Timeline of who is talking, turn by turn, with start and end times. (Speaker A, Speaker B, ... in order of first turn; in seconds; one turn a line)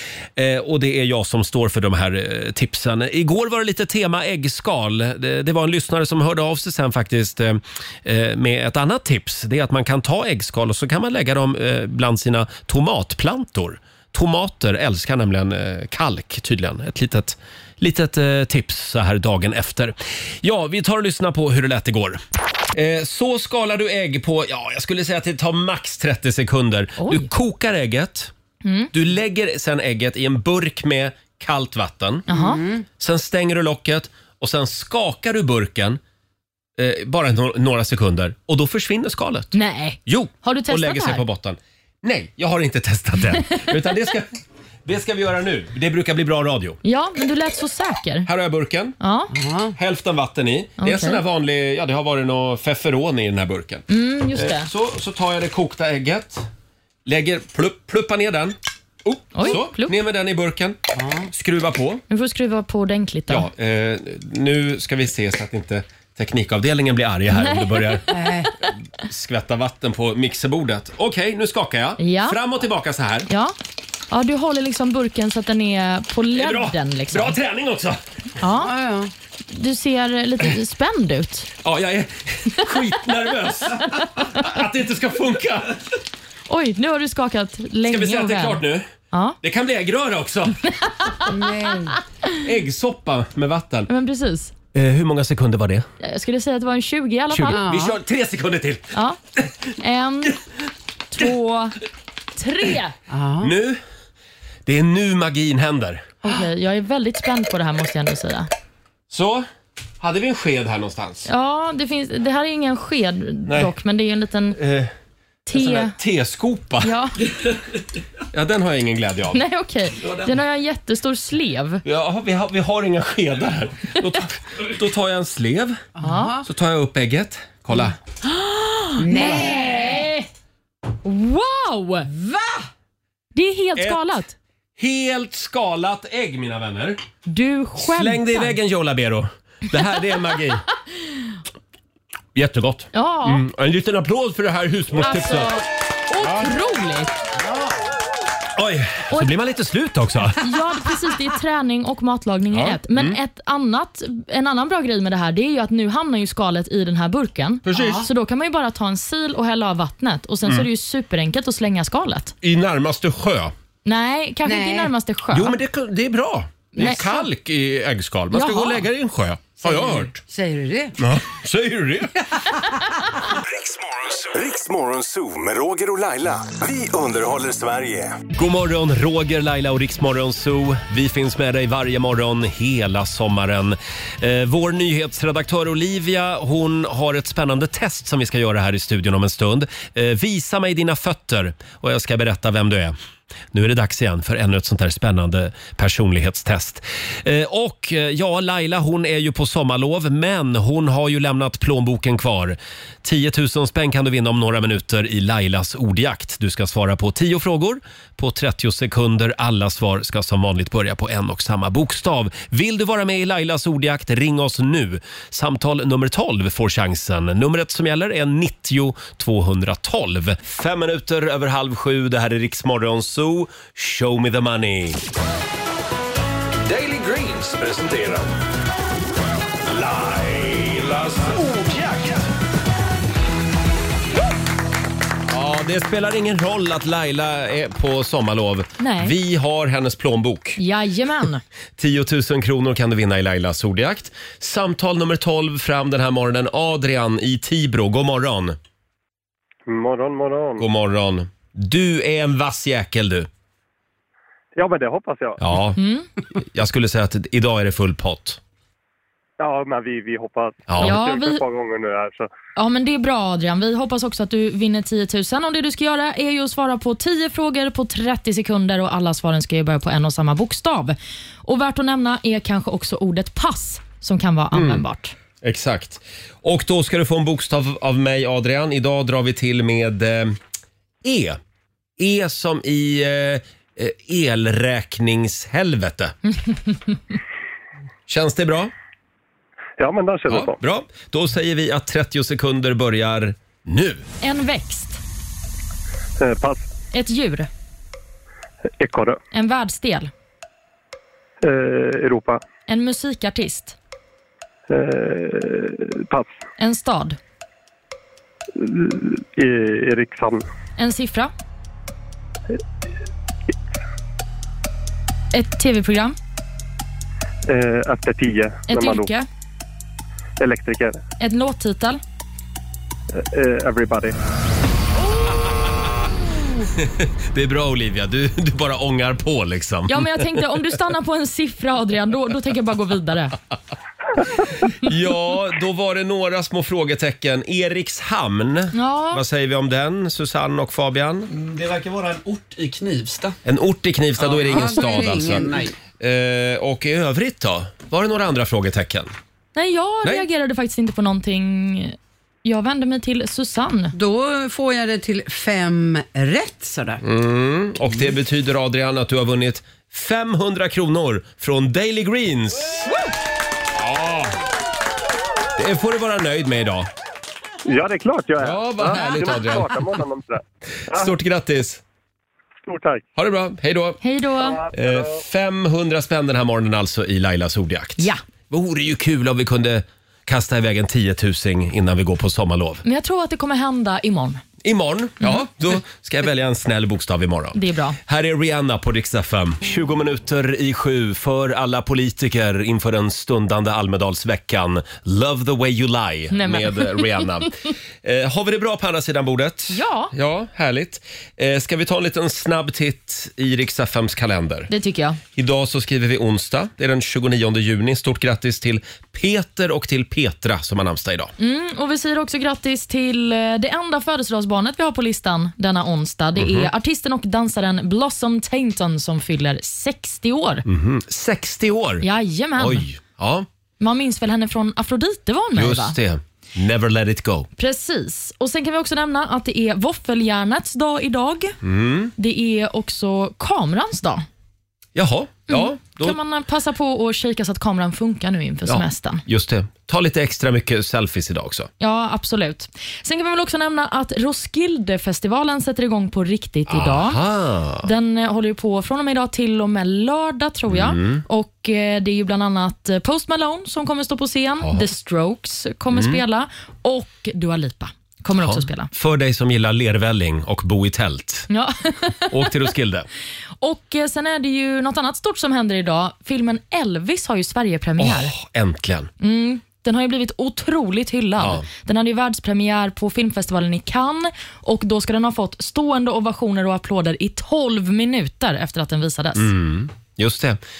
Speaker A: 0.4-22.2
Speaker A: 22.7-28.3
Speaker B: 27.0-27.3
Speaker B: 28.6-28.9
Speaker A: 28.9-32.3
Speaker B: 32.3-32.6
Speaker C: 32.3-32.9
Speaker A: 33.0-36.0
Speaker A: 36.8-39.5
Speaker B: 39.5-41.2
Speaker A: 40.1-44.3
Speaker A: 44.9-46.8
Speaker B: 46.8-48.3
Speaker A: 48.2-49.0
Speaker B: 49.0-49.3
Speaker C: 49.3-49.8
Speaker A: 49.8-56.5
Speaker B: 50.8-51.2
Speaker B: 53.9-54.7
Speaker A: 57.0-60.8
Speaker B: 59.4-60.0
Speaker C: 61.0-61.3
Speaker A: 61.3-62.0
Speaker B: 62.1-63.5
Speaker A: 63.3-68.0
Speaker B: 67.3-68.7
Speaker C: 68.1-68.5
Speaker A: 69.0-73.3
Speaker B: 72.0-72.4
Speaker B: 73.3-73.5
Speaker B: 74.1-77.4
Speaker A: 76.3-78.0
Speaker B: 78.4-78.7
Speaker C: 78.6-79.1
Speaker B: 79.5-81.5
Speaker A: 81.6-85.8
Speaker B: 86.5-89.4
Speaker A: 87.9-88.9
Speaker A: 89.4-90.6
Speaker B: 90.7-91.3
Speaker C: 91.2-92.0
Speaker A: 92.4-93.9
Speaker B: 93.9-94.5
Speaker A: 94.7-95.9
Speaker B: 96.0-97.7
Speaker A: 97.3-99.5
Speaker C: 97.5-98.0
Speaker B: 98.9-99.2
Speaker B: 99.8-100.4
Speaker B: 101.1-101.8
Speaker B: 102.4-103.0
Speaker C: 103.1-103.5
Speaker A: 103.4-103.8
Speaker A: 104.7-106.1
Speaker B: 106.2-108.5
Speaker A: 109.1-109.5
Speaker A: 110.0-111.3
Speaker B: 111.3-114.6
Speaker A: 113.5-113.7
Speaker A: 114.5-114.9
Speaker B: 115.5-116.0
Speaker A: 115.5-116.9
Speaker B: 116.8-117.2
Speaker A: 118.3-119.4
Speaker B: 119.3-121.8
Speaker A: 121.8-125.8
Speaker C: 126.0-126.4
Speaker B: 126.0-126.4
Speaker A: 126.4-128.0
Speaker B: 128.2-130.3
Speaker C: 129.0-130.0
Speaker B: 131.0-132.2
Speaker B: 133.3-134.3
Speaker A: 133.8-134.0
Speaker A: 134.8-137.0
Speaker B: 137.3-138.6
Speaker A: 137.8-140.6
Speaker A: 142.3-145.6
Speaker B: 142.9-143.4
Speaker B: 145.0-147.1
Speaker A: 148.6-150.5
Speaker B: 150.4-162.3
Speaker A: 152.5-153.2
Speaker A: 157.7-158.1
Speaker C: 157.7-158.1
Speaker A: 162.4-163.5
Speaker B: 163.8-165.6
Speaker C: 164.4-164.9
Speaker A: 165.3-170.2
Speaker C: 166.8-167.2
Speaker B: 166.8-167.0
Speaker B: 168.3-168.9
Speaker C: 169.6-171.0
Speaker A: 171.0-172.3
Speaker D: 173.5-178.3
Speaker A: 178.3-192.9
Speaker A: 193.5-225.0
Speaker E: 226.7-228.3
Speaker E: 229.7-232.3
Speaker A: 235.3-240.6
Speaker B: 238.8-239.2
Speaker B: 240.6-241.4
Speaker A: 241.8-248.6
Speaker F: 249.7-250.6
Speaker A: 250.6-253.3
Speaker F: 254.6-255.4
Speaker A: 255.4-255.8
Speaker B: 255.8-256.1
Speaker A: 256.4-258.4
Speaker F: 259.4-262.3
Speaker A: 260.7-261.0
Speaker B: 260.8-261.4
Speaker B: 262.6-275.1
Speaker A: 274.5-274.8
Speaker A: 275.4-280.4
Speaker A: 281.0-281.4
Speaker A: 282.0-286.1
Speaker A: 288.1-288.7
Speaker F: 289.8-290.6
Speaker A: 290.3-294.1
Speaker B: 294.2-295.0
Speaker F: 296.2-296.7
Speaker B: 296.9-297.5
Speaker F: 298.8-299.2
Speaker B: 299.3-300.1
Speaker F: 301.4-302.4
Speaker B: 302.7-303.8
Speaker F: 304.7-306.4
Speaker B: 306.6-307.2
Speaker F: 308.6-310.5
Speaker B: 310.8-311.3
Speaker B: 315.3-316.2
Speaker F: 317.5-319.1
Speaker B: 318.7-319.3
Speaker F: 320.4-321.0
Speaker B: 321.2-322.0
Speaker F: 323.1-324.2
Speaker A: 326.8-330.4
Speaker B: 329.9-333.4
Speaker A: 334.7-341.3
Speaker B: 338.7-339.2
Speaker G: 341.3-343.4
Speaker A: 343.4-349.1
Speaker G: 344.2-345.8
Speaker C: 344.4-345.7
Speaker B: 349.6-353.9
Speaker C: 353.9-357.0
Speaker A: 357.0-362.8
Speaker A: 363.8-364.3
Speaker A: 365.6-366.9
Speaker F: 367.7-371.1
Speaker A: 368.4-369.8
Speaker A: 370.9-371.8
Speaker F: 372.6-373.1
Speaker A: 373.2-374.0
Speaker B: 374.0-374.6
Speaker F: 374.4-375.1
Speaker A: 374.7-382.8
Speaker B: 382.8-384.4
Speaker A: 384.6-404.7
Speaker B: 385.2-385.5
Speaker B: 387.5-388.0
Speaker B: 396.3-397.3
Speaker B: 399.7-400.1
Speaker B: 404.7-405.2
Speaker A: 405.4-411.3
Speaker B: 411.4-420.6
Speaker A: 416.4-416.7
Speaker A: 420.6-422.1
Speaker B: 422.0-422.9
Speaker A: 422.6-423.5
Speaker B: 423.8-426.0
Speaker A: 425.5-427.5
Speaker B: 427.6-431.6
Speaker A: 431.6-432.1
Speaker B: 432.2-434.2
Speaker A: 434.9-436.2
Speaker B: 435.5-439.2
Speaker A: 438.7-441.7
Speaker B: 441.8-447.2
Speaker A: 446.7-447.9
Speaker B: 447.8-458.9
Speaker A: 450.7-451.2
Speaker A: 454.6-454.9
Speaker A: 455.9-456.2
Speaker A: 458.4-461.5
Speaker B: 461.5-462.3
Speaker A: 462.3-463.1
Speaker B: 463.6-468.3
Speaker A: 468.0-469.1
Speaker B: 469.2-479.5
Speaker A: 471.4-471.7
Speaker A: 479.4-480.6